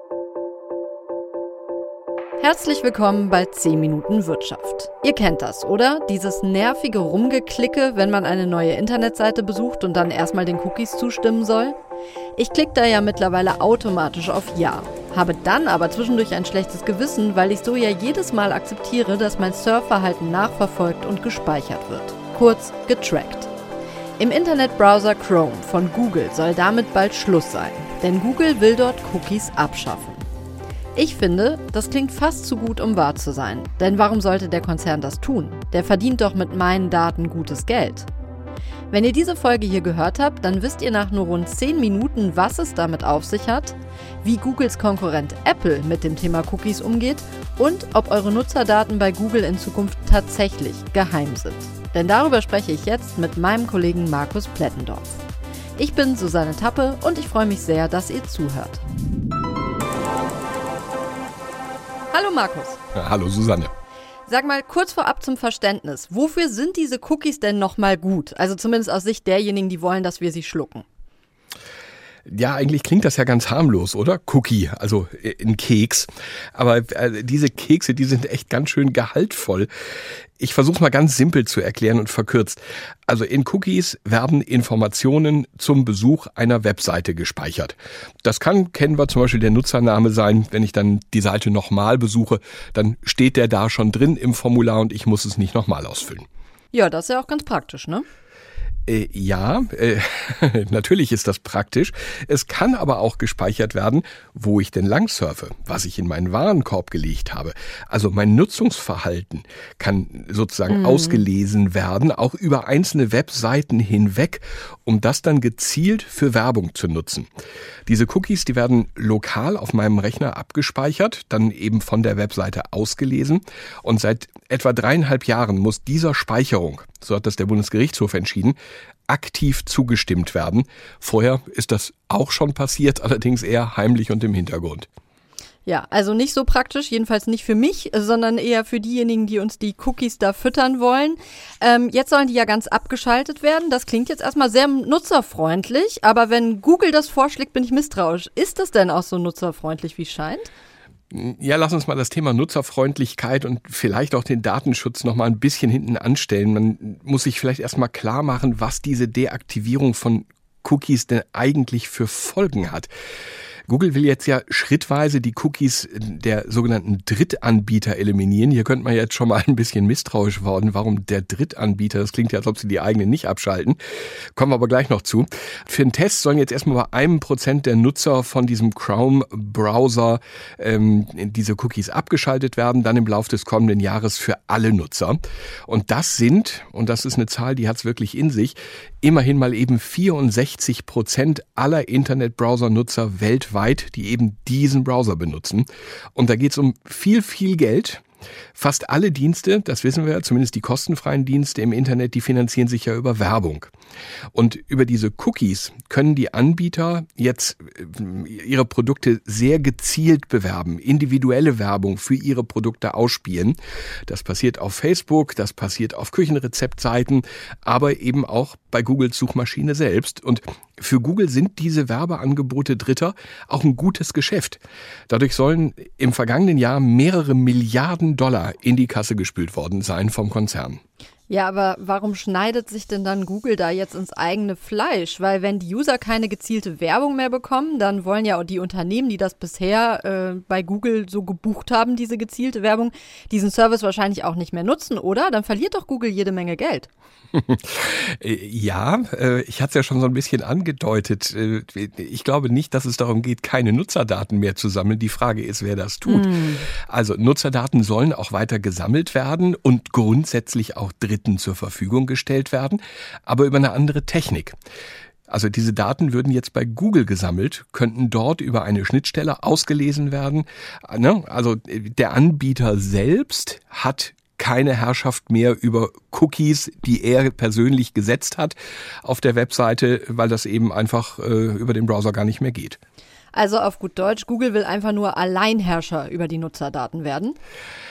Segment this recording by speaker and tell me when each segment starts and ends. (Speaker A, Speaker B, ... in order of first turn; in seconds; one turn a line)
Speaker A: 2.4-11.8
Speaker A: 12.4-23.5
Speaker A: 24.2-30.3
Speaker A: 30.9-38.1
Speaker A: 38.9-55.2
Speaker A: 55.8-58.8
Speaker A: 62.1-62.8
Speaker B: 62.9-63.7
Speaker A: 64.3-70.8
Speaker B: 72.3-79.7
Speaker B: 80.4-96.3
Speaker A: 96.7-98.0
Speaker B: 98.9-117.3
Speaker A: 110.7-111.2
Speaker B: 117.9-128.6
Speaker B: 129.1-134.9
Speaker A: 135.7-150.5
Speaker B: 151.1-162.9
Speaker B: 163.7-173.8
Speaker B: 174.3-198.0
Speaker B: 198.6-203.7
Speaker B: 204.3-230.8
Speaker A: 231.3-246.9
Speaker B: 247.3-264.6
Speaker A: 256.1-256.7
Speaker B: 265.3-282.8
Speaker A: 283.3-287.4